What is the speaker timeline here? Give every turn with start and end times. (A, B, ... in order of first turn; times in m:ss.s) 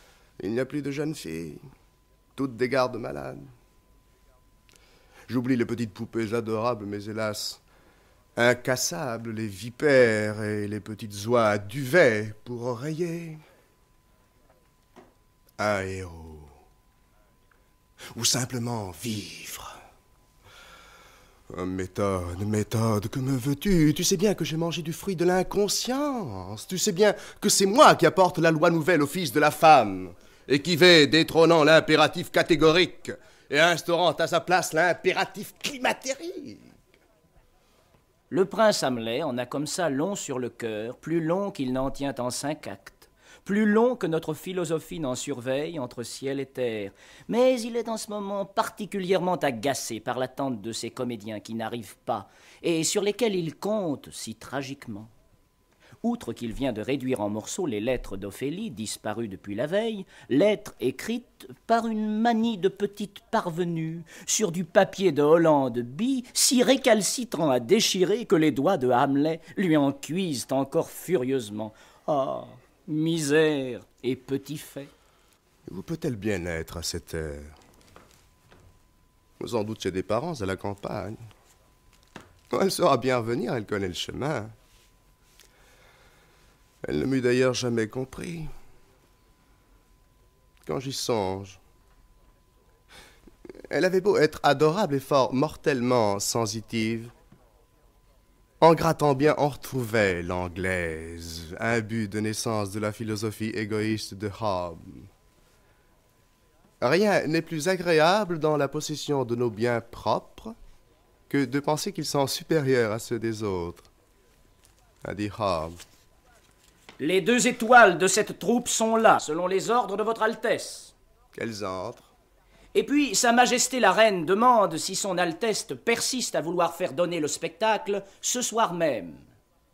0:00.4-0:01.6 A
0:02.4-0:03.5 A
0:05.3-0:07.6 A
0:08.4-0:13.4 A
0:15.6-0:16.5 A
0:18.1-0:19.8 A
0:21.5-0:36.7 A
0:38.3-0:55.1 B
0:56.0-1:14.9 B
1:15.7-1:17.5 A
1:19.4-1:21.2 A
1:22.5-1:24.5 A
1:26.8-1:28.5 A
1:30.6-1:31.6 A
1:33.7-1:37.1 A
1:38.6-1:45.1 A
1:46.8-1:50.6 A
1:51.3-1:53.9 A
1:55.0-1:55.8 A
1:57.0-2:00.9 B
2:01.3-2:02.1 A
2:02.7-2:09.3 B